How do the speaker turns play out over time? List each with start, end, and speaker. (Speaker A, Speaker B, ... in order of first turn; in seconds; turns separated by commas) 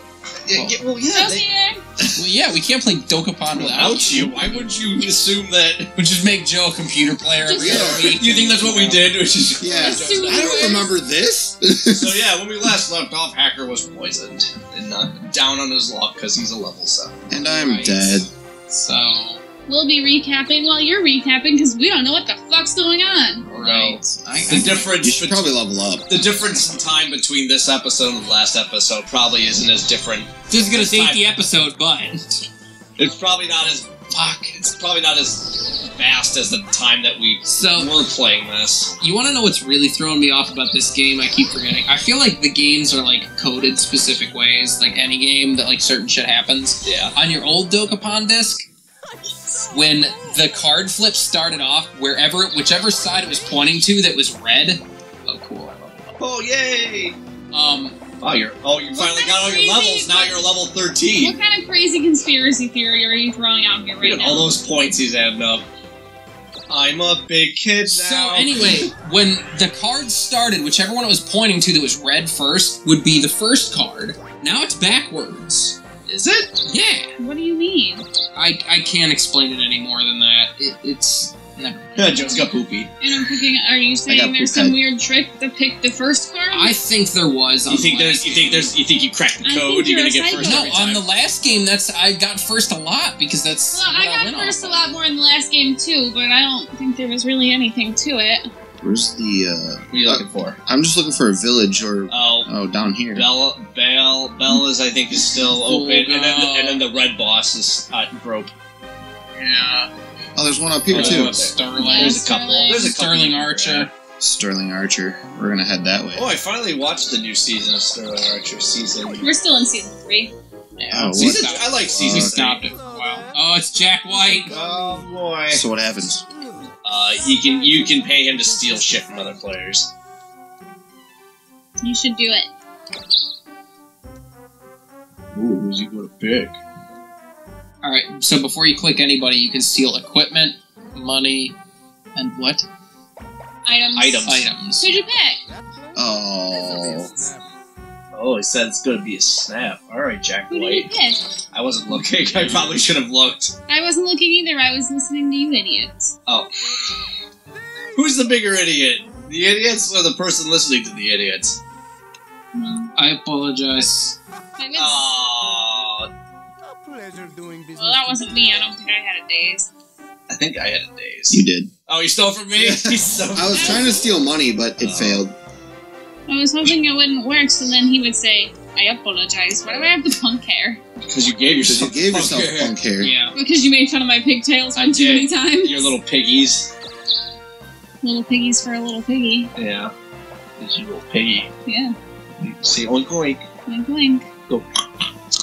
Speaker A: 0.4-1.4, Speaker B: 0.5-0.8, Speaker C: 1.1-1.8, Speaker D: 2.0-2.3, Speaker B: 2.1-4.7, Speaker A: 3.5-5.9, Speaker D: 3.5-4.0, Speaker B: 6.0-9.1, Speaker C: 7.4-7.9, Speaker D: 7.6-8.2, Speaker A: 7.6-10.8, Speaker D: 9.6-12.2, Speaker C: 9.8-10.9, Speaker A: 11.9-17.2, Speaker D: 17.3-18.3, Speaker B: 17.4-19.4, Speaker C: 19.7-23.4, Speaker B: 23.4-24.9, Speaker A: 23.5-25.5, Speaker D: 25.0-26.1, Speaker A: 26.1-31.2, Speaker B: 30.5-32.5, Speaker A: 33.0-38.9, Speaker B: 37.5-37.9, Speaker B: 39.0-48.7, Speaker A: 46.8-47.1, Speaker B: 49.7-56.2, Speaker A: 56.2-57.2, Speaker B: 57.5-58.0, Speaker A: 58.2-61.4, Speaker C: 58.9-60.4, Speaker C: 61.2-64.5, Speaker A: 64.0-65.6, Speaker A: 66.7-68.9, Speaker B: 67.9-75.8, Speaker A: 76.1-76.5, Speaker B: 76.6-77.1, Speaker C: 77.2-78.0, Speaker B: 78.3-82.5, Speaker A: 82.0-82.9, Speaker C: 83.0-86.8, Speaker D: 84.1-84.8, Speaker B: 86.5-88.7, Speaker A: 87.7-91.0, Speaker C: 89.4-90.8, Speaker B: 90.3-94.8, Speaker C: 93.7-98.5, Speaker D: 98.8-103.3, Speaker A: 99.9-100.6, Speaker A: 102.1-102.5, Speaker A: 103.1-108.5, Speaker B: 105.6-106.8, Speaker B: 109.3-109.9, Speaker D: 110.3-111.4, Speaker A: 110.9-113.9, Speaker B: 110.9-113.9, Speaker C: 111.7-112.9, Speaker D: 114.2-116.3, Speaker A: 116.1-119.3, Speaker C: 119.2-120.3, Speaker B: 120.8-124.5, Speaker D: 120.9-122.4, Speaker A: 121.1-122.6, Speaker A: 124.4-125.6, Speaker D: 125.5-126.2, Speaker A: 126.8-129.9, Speaker C: 131.8-132.5, Speaker A: 135.3-136.6, Speaker B: 137.8-141.6, Speaker B: 142.1-142.6, Speaker C: 143.6-144.3, Speaker A: 143.9-144.5, Speaker B: 144.2-145.0, Speaker C: 144.8-145.4, Speaker D: 145.9-147.1, Speaker A: 148.1-150.9, Speaker C: 150.5-151.3, Speaker A: 151.5-153.5, Speaker B: 152.3-152.7, Speaker C: 153.7-156.1, Speaker A: 157.9-161.6, Speaker C: 162.5-162.9, Speaker B: 162.9-164.2, Speaker C: 164.6-165.0, Speaker A: 164.7-166.1, Speaker C: 167.7-169.7, Speaker A: 170.3-174.0, Speaker D: 171.3-171.7, Speaker D: 172.6-175.3, Speaker C: 173.5-174.1, Speaker A: 174.8-175.2, Speaker C: 176.3-180.8, Speaker A: 179.7-179.9, Speaker A: 181.0-182.8, Speaker D: 181.6-183.1, Speaker B: 183.0-183.3, Speaker C: 183.3-185.9, Speaker A: 184.7-186.7, Speaker C: 188.0-189.5, Speaker A: 189.6-189.9, Speaker A: 190.6-191.5, Speaker C: 191.7-191.9, Speaker A: 192.4-193.4, Speaker C: 193.7-194.3, Speaker A: 194.5-194.8